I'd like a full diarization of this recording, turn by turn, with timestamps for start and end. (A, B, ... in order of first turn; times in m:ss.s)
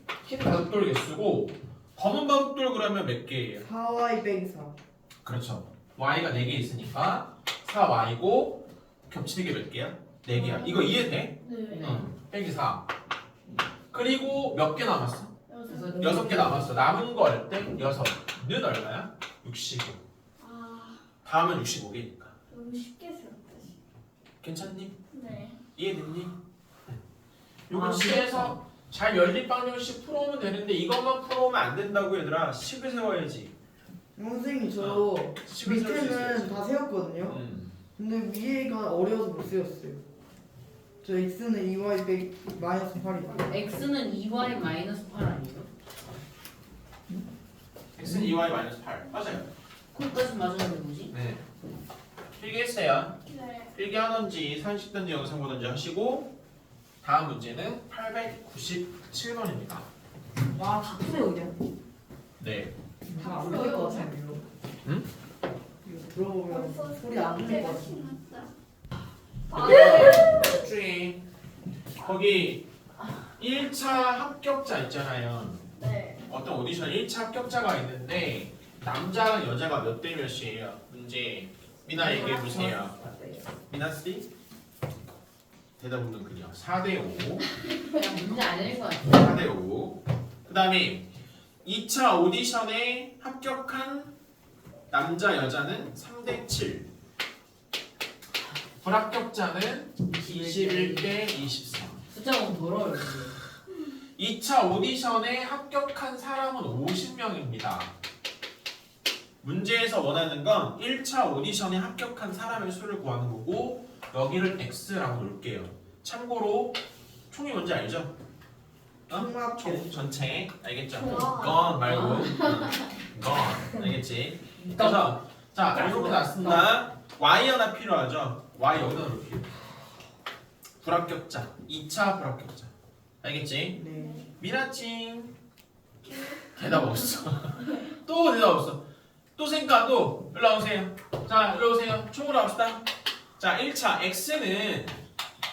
0:00.2-0:03.7 A
0:03.6-0:04.8 B
0:05.2-0:12.9 A
0:10.3-0:12.0 C
0:11.7-0:12.1 D
0:13.9-0:15.3 A
0:15.5-0:16.5 C
0:15.7-0:16.8 E
0:16.0-0:20.0 A
0:20.4-0:21.0 C
0:21.2-0:22.3 A
0:22.5-0:23.8 C
0:24.4-0:25.0 A
0:25.1-0:25.6 C
0:25.8-0:26.4 A
0:27.7-0:33.5 A
0:27.7-0:28.5 B
0:34.2-0:37.4 B
0:34.8-0:36.6 A
0:37.2-0:37.7 A
0:38.0-0:40.0 B
0:41.0-0:43.6 B
0:43.3-0:45.7 D
0:48.0-0:49.5 A
0:49.9-0:51.1 D
0:51.1-0:51.4 A
0:52.3-0:53.2 A
0:53.3-0:53.8 C
0:53.7-0:56.3 A
0:57.0-0:59.9 A
1:00.5-1:01.6 E
1:02.4-1:02.7 A
1:03.1-1:04.4 B
1:03.2-1:04.4 E
1:03.2-1:04.1 C
1:05.8-1:08.2 B
1:06.5-1:08.5 C
1:09.5-1:10.6 C
1:09.5-1:11.2 A
1:09.7-1:10.3 E
1:12.0-1:12.6 A
1:13.4-1:15.6 A
1:15.8-1:16.2 C
1:16.3-1:23.0 A
1:22.0-1:23.5 E
1:23.7-1:24.3 A
1:25.8-1:27.4 A
1:27.9-1:29.5 D
1:29.1-1:31.0 A
1:31.6-1:34.1 A
1:34.9-1:36.9 A
1:38.8-1:42.0 A
1:40.1-1:41.2 D
1:42.1-1:43.3 D
1:44.2-1:47.9 A
1:49.4-1:56.8 A
1:57.3-1:58.1 A
1:59.1-2:00.1 B
1:59.1-2:09.5 A
2:00.9-2:02.8 C
2:01.8-2:02.4 D
2:04.6-2:05.0 D
2:05.7-2:06.7 D
2:10.8-2:12.7 A
2:13.2-2:13.8 A
2:13.8-2:14.2 B
2:13.8-2:14.4 C
2:14.4-2:15.3 A
2:16.0-2:17.9 C
2:16.6-2:18.8 A
2:19.4-2:22.8 A
2:23.4-2:25.0 A